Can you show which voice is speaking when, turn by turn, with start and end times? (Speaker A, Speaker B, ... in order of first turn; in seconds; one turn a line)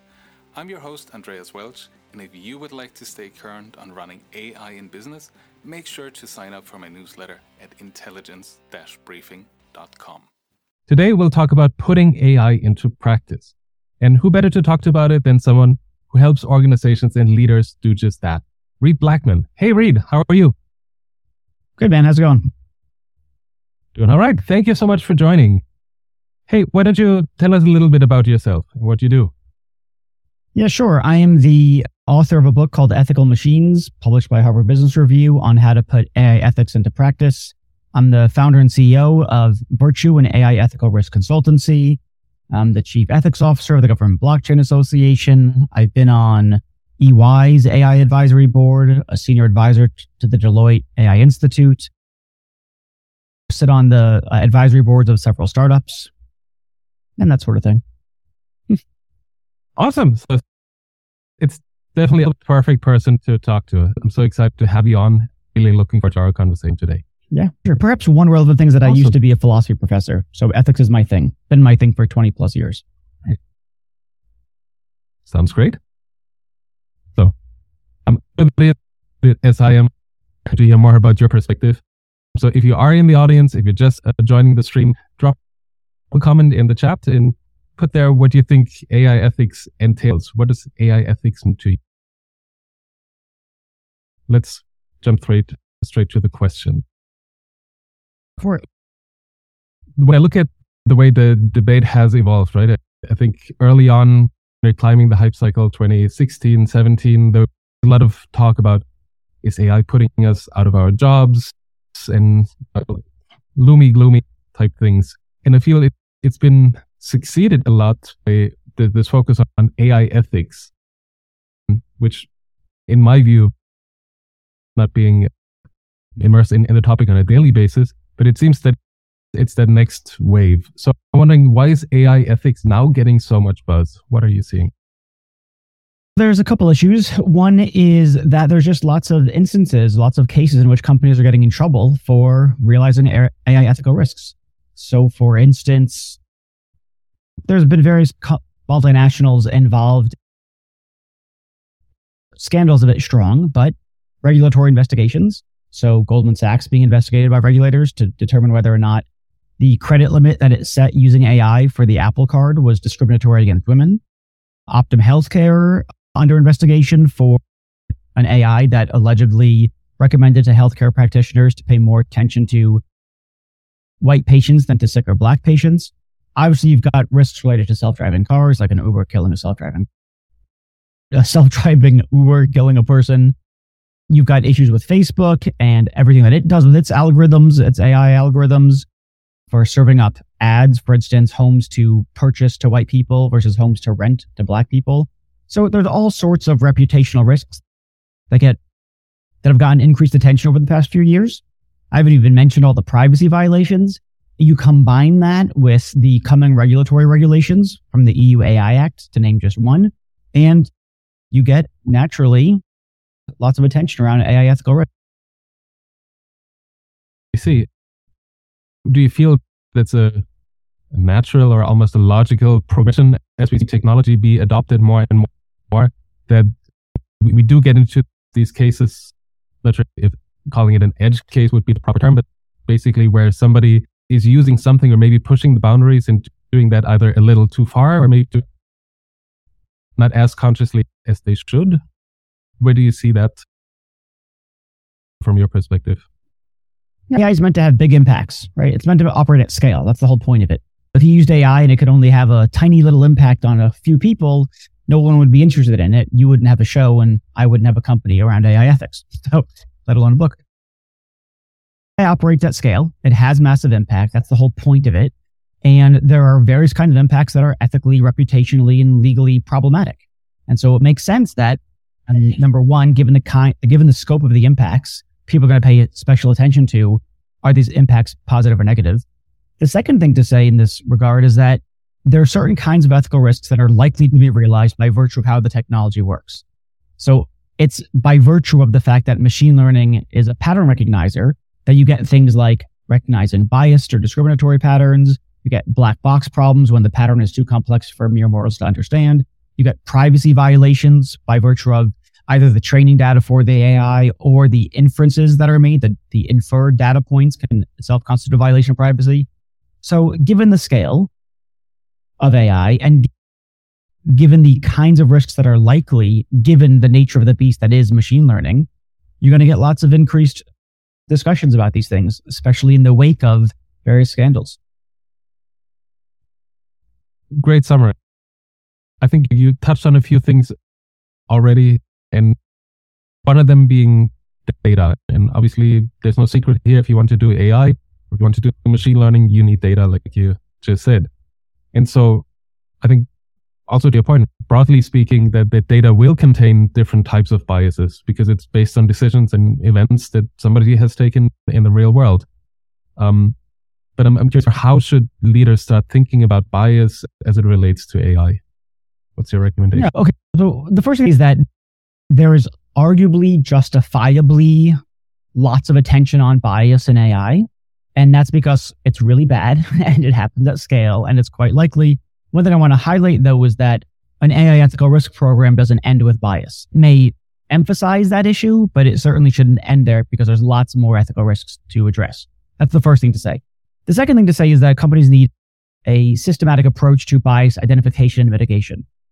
Speaker A: 0.5-10.2
Speaker B: 10.9-20.5
Speaker C: 21.8-22.5
Speaker B: 23.9-25.6
Speaker B: 26.5-29.3
Speaker C: 30.5-42.0
Speaker C: 42.5-51.9
Speaker C: 53.5-56.1
Speaker C: 57.2-57.8
Speaker B: 59.8-60.4
Speaker B: 61.4-67.0
Speaker C: 67.3-72.8
Speaker B: 68.8-69.2
Speaker B: 75.3-75.8
Speaker B: 78.0-79.9
Speaker B: 80.5-81.8
Speaker B: 82.3-85.4
Speaker B: 86.1-91.8
Speaker B: 94.3-96.8
Speaker C: 98.4-98.6
Speaker B: 100.0-108.8
Speaker B: 109.4-120.7
Speaker B: 121.7-122.3
Speaker B: 122.9-123.5
Speaker B: 124.8-125.3
Speaker B: 126.2-128.8
Speaker B: 129.3-134.7
Speaker C: 136.2-146.2
Speaker C: 147.5-150.2
Speaker C: 152.4-159.0
Speaker C: 159.6-164.0
Speaker C: 164.7-167.4
Speaker C: 168.1-172.8
Speaker C: 174.0-179.9
Speaker C: 181.1-183.3
Speaker C: 184.1-188.8
Speaker C: 189.5-197.6
Speaker C: 198.3-198.6
Speaker C: 199.4-210.7
Speaker C: 211.3-212.6
Speaker C: 213.4-214.9
Speaker B: 217.3-217.7
Speaker B: 218.8-220.2
Speaker B: 220.9-226.5
Speaker B: 227.2-238.4
Speaker B: 240.0-241.8
Speaker B: 242.6-243.4
Speaker B: 245.2-246.0
Speaker C: 247.1-260.4
Speaker C: 262.0-265.1
Speaker C: 265.6-279.0
Speaker C: 279.6-286.4
Speaker C: 287.0-309.3
Speaker C: 309.8-311.1
Speaker C: 312.2-313.1
Speaker C: 314.1-318.7
Speaker C: 319.2-320.4
Speaker C: 321.1-324.6
Speaker B: 327.3-327.9
Speaker B: 329.0-330.5
Speaker B: 331.3-332.4
Speaker B: 333.2-341.1
Speaker B: 341.7-342.2
Speaker B: 342.8-343.1
Speaker B: 343.7-352.2
Speaker B: 353.0-353.4
Speaker B: 354.0-358.4
Speaker B: 359.1-359.9
Speaker C: 359.7-361.4
Speaker C: 362.1-364.8
Speaker C: 365.4-385.3
Speaker C: 385.9-388.8